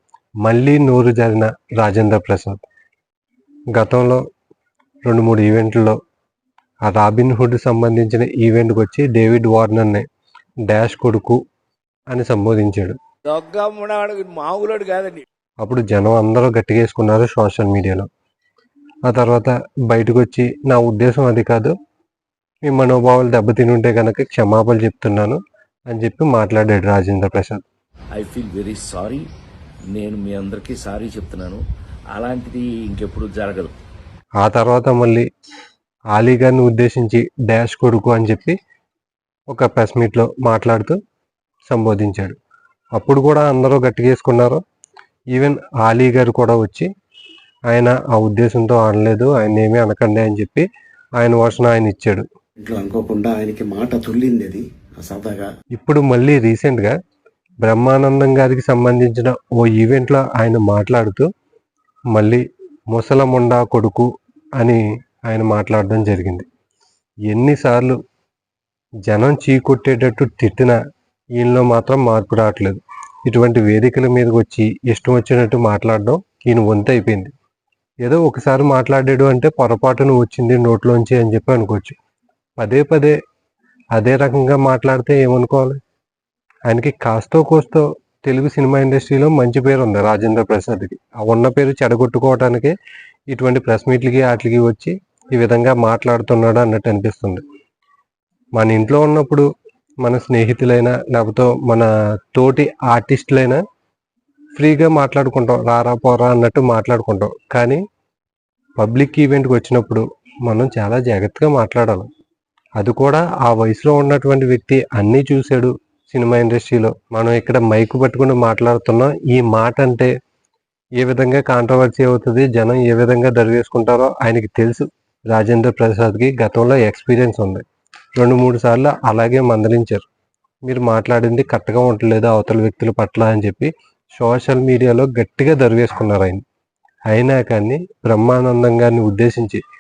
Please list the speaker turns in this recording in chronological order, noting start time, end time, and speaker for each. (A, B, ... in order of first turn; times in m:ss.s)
0:00.4-0:02.6 A
0:03.7-0:04.2 A
0:05.1-0:06.0 A
0:06.9-0:10.0 A
0:10.7-0:11.4 A
0:12.1-0:13.0 A
0:13.3-0:15.2 B
0:15.6-0:18.1 A
0:19.1-0:21.7 A
0:22.7-0:25.4 A
0:25.9-0:27.6 A
0:28.2-0:29.2 C
0:29.9-0:31.6 C
0:32.1-0:33.7 C
0:34.4-0:35.2 A
0:36.2-0:38.6 A
0:39.5-0:41.0 A
0:41.7-0:42.4 A
0:43.0-0:44.6 A
0:45.3-0:46.9 A
0:47.7-0:50.7 A
0:51.2-0:52.2 A
0:52.6-0:55.5 D
0:55.8-0:56.9 A
0:57.6-1:01.3 A
1:02.1-1:06.5 A
1:07.3-1:08.0 A
1:09.1-1:10.8 A
1:11.4-1:17.3 A
1:18.0-1:22.0 A
1:22.6-1:23.2 A
1:24.0-1:25.8 A
1:26.7-1:32.8 A
1:33.3-1:37.4 A
1:38.6-1:39.4 A
1:40.0-1:43.6 A
1:44.6-1:47.8 A
1:48.8-1:52.1 A
1:52.8-2:00.1 A
2:01.0-2:07.6 A
2:08.2-2:10.0 A
2:10.7-2:16.4 A
2:17.1-2:19.6 A